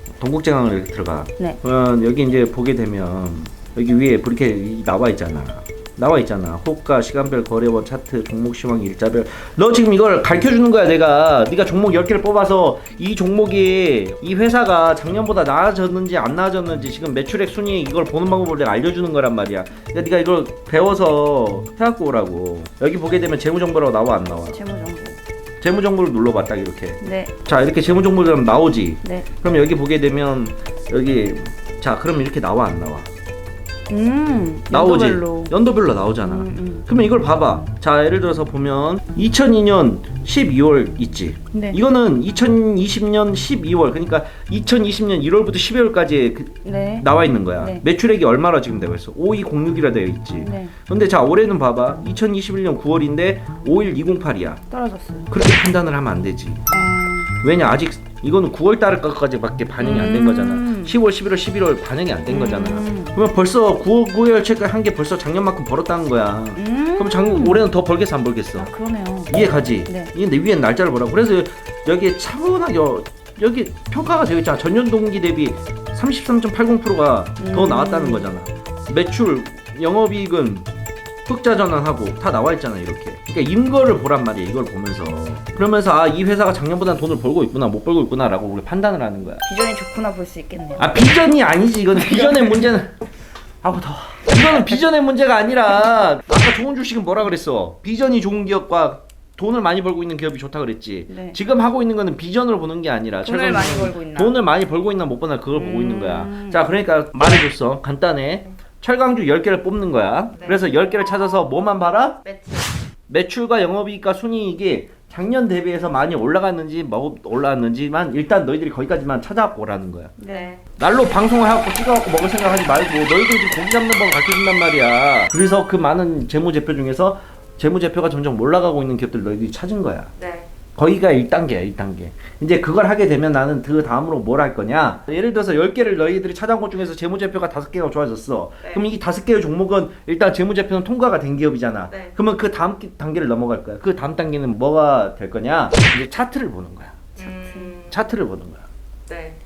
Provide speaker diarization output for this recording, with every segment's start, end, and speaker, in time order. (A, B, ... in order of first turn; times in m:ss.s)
0:00.2-0:24.6 A
0:24.5-0:25.2 B
0:25.6-0:33.1 A
0:27.0-0:27.4 B
0:29.0-0:29.3 B
0:33.9-0:35.5 B
0:34.7-0:54.6 A
0:36.2-0:36.9 B
0:41.5-0:41.8 B
0:46.6-0:47.8 B
0:50.4-0:50.7 B
0:54.7-0:55.3 B
0:55.3-0:56.7 A
0:56.7-0:57.4 B
0:57.4-1:08.7 A
0:59.8-1:01.0 B
1:02.3-1:03.2 B
1:06.6-1:07.6 B
1:08.6-1:10.1 B
1:09.3-1:20.7 A
1:17.4-1:18.3 B
1:21.3-1:29.4 A
1:29.4-1:31.0 B
1:30.8-1:33.0 A
1:31.9-1:32.6 B
1:33.6-1:52.2 A
1:34.3-1:34.9 B
1:41.1-1:41.4 B
1:43.2-1:44.4 B
1:45.6-1:46.6 B
1:50.4-1:50.6 C
1:52.2-1:52.7 C
1:53.1-2:00.2 A
2:00.2-2:00.5 B
2:00.3-2:00.6 C
2:00.8-2:10.1 A
2:10.2-2:10.5 C
2:10.8-2:27.0 A
2:27.2-2:28.0 C
2:27.2-2:27.7 B
2:27.9-2:28.7 A
2:29.1-2:29.4 C